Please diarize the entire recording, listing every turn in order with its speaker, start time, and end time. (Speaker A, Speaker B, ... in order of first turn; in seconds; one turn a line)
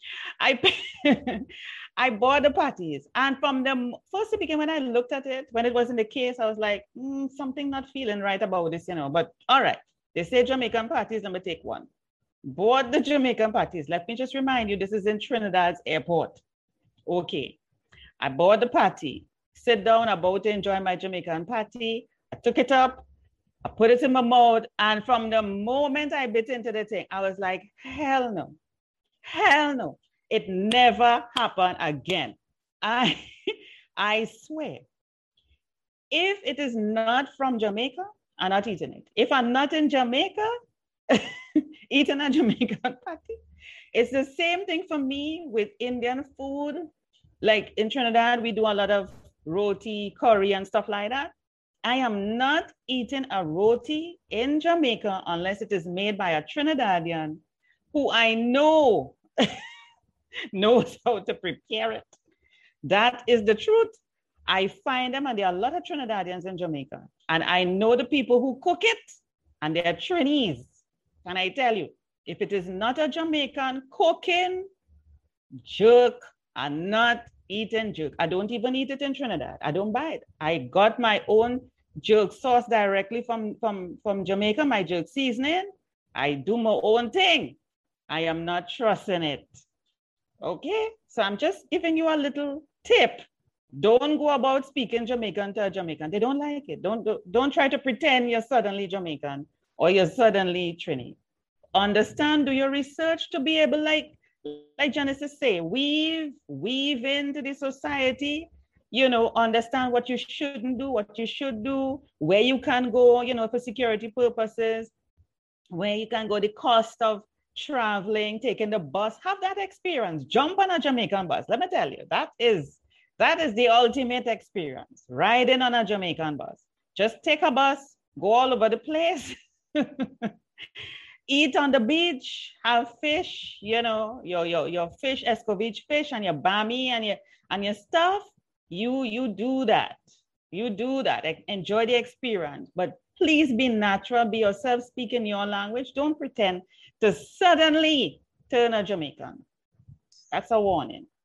Speaker A: 0.4-11.9
Speaker A: 12.4-16.4
Speaker A: 17.1-17.6
Speaker A: 18.2-23.1
Speaker A: 23.6-28.6
Speaker A: 29.2-34.9
Speaker A: 36.1-40.5
Speaker A: 41.1-43.4
Speaker A: 43.9-46.9
Speaker A: 47.4-51.3
Speaker A: 51.8-57.4
Speaker A: 57.9-59.6
Speaker A: 60.5-62.2
Speaker A: 62.8-63.9
Speaker A: 64.5-74.7
Speaker A: 75.6-87.6
Speaker A: 88.1-89.7
Speaker A: 90.4-93.2
Speaker A: 93.8-101.2
Speaker A: 101.8-114.9
Speaker A: 115.7-130.3
Speaker A: 131.3-149.4
Speaker A: 150.3-151.1